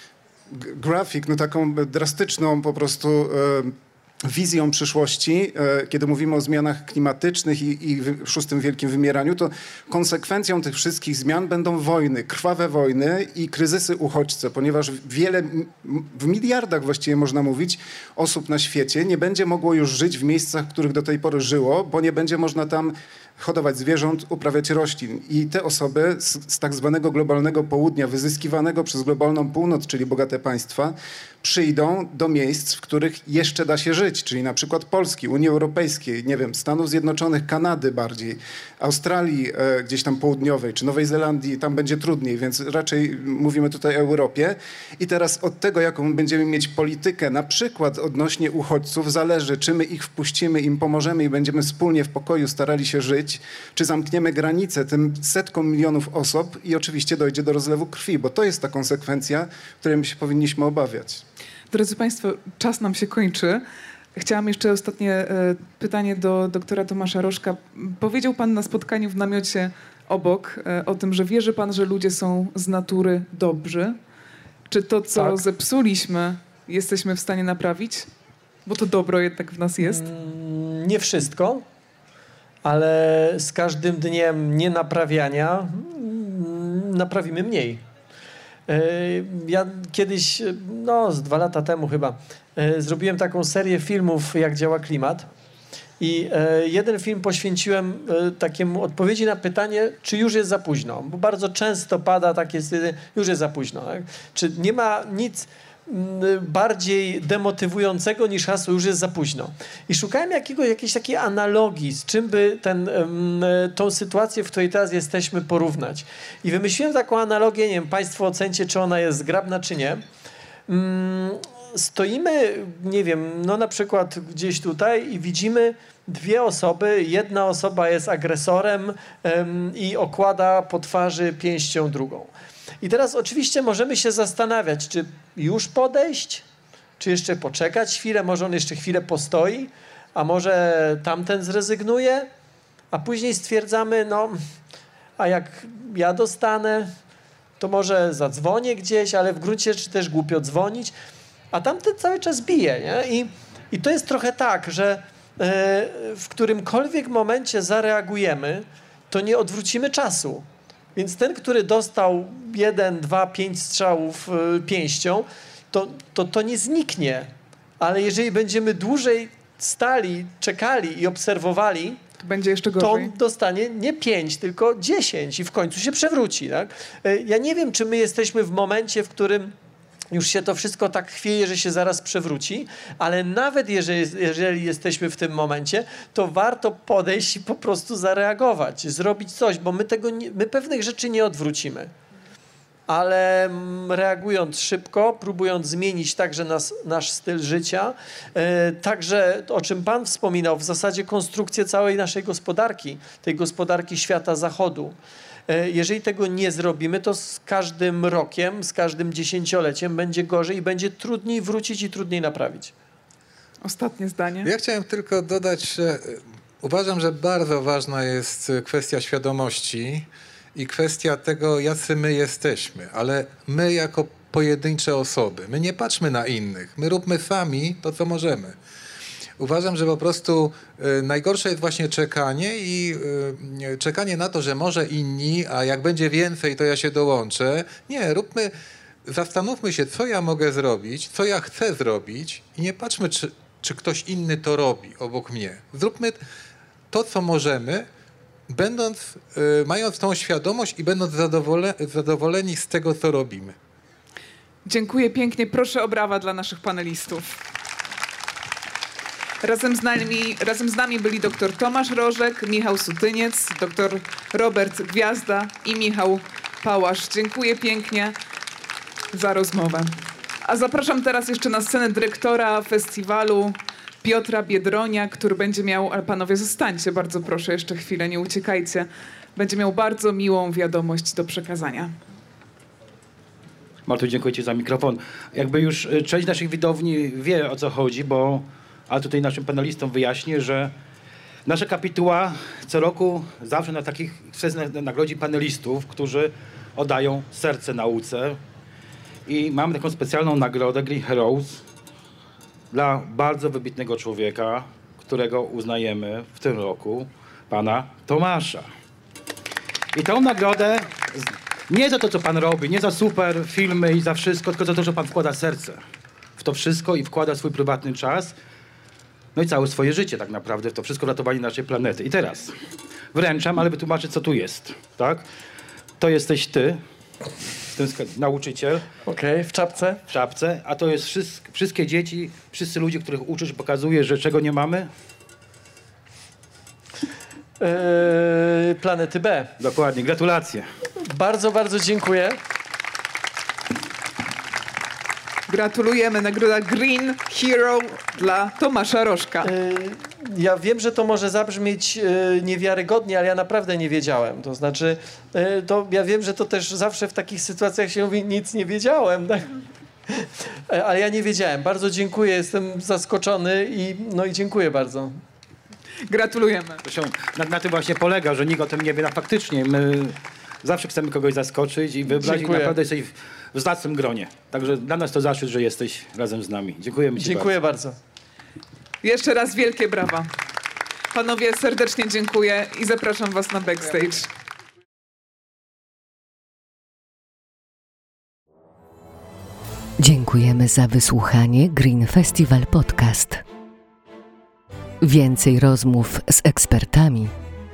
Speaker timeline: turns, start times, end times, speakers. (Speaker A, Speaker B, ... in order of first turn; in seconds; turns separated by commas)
Speaker A: 0.5-61.2, Speaker B: 61.7-63.6, Speaker B: 64.2-74.0, Speaker B: 74.7-78.1, Speaker C: 75.2-75.4, Speaker B: 78.7-80.0, Speaker C: 79.8-81.7, Speaker C: 82.6-87.8, Speaker C: 88.7-95.3, Speaker C: 96.0-120.0, Speaker C: 120.7-136.4, Speaker C: 137.0-142.3, Speaker C: 142.9-144.4, Speaker C: 145.2-146.9, Speaker C: 147.6-150.9, Speaker C: 151.5-172.0, Speaker B: 172.2-173.1, Speaker C: 172.8-179.5, Speaker C: 180.1-191.9, Speaker C: 192.9-204.9, Speaker C: 205.5-212.7, Speaker B: 213.6-214.5, Speaker D: 214.4-228.6, Speaker D: 229.4-238.5, Speaker D: 239.1-246.2, Speaker D: 246.9-247.9, Speaker D: 248.5-253.6, Speaker B: 254.7-257.3, Speaker B: 259.4-268.1, Speaker B: 269.1-269.9, Speaker B: 270.4-281.9, Speaker E: 283.9-290.8, Speaker E: 291.5-298.4, Speaker E: 299.3-301.6, Speaker E: 302.7-308.7, Speaker E: 309.9-315.8, Speaker E: 316.4-318.4, Speaker E: 319.4-322.6, Speaker E: 323.1-325.3, Speaker E: 326.0-326.8, Speaker E: 327.7-328.9, Speaker C: 329.1-330.0, Speaker E: 330.1-334.9, Speaker C: 337.6-339.6, Speaker E: 339.6-340.7, Speaker C: 341.1-342.4, Speaker B: 345.5-349.5, Speaker C: 349.4-359.5, Speaker C: 360.1-365.2, Speaker B: 366.1-366.8, Speaker E: 366.8-377.5, Speaker C: 372.1-372.8, Speaker C: 377.2-378.0, Speaker B: 379.0-380.3, Speaker B: 381.1-384.3, Speaker F: 390.0-393.4, Speaker F: 395.0-397.3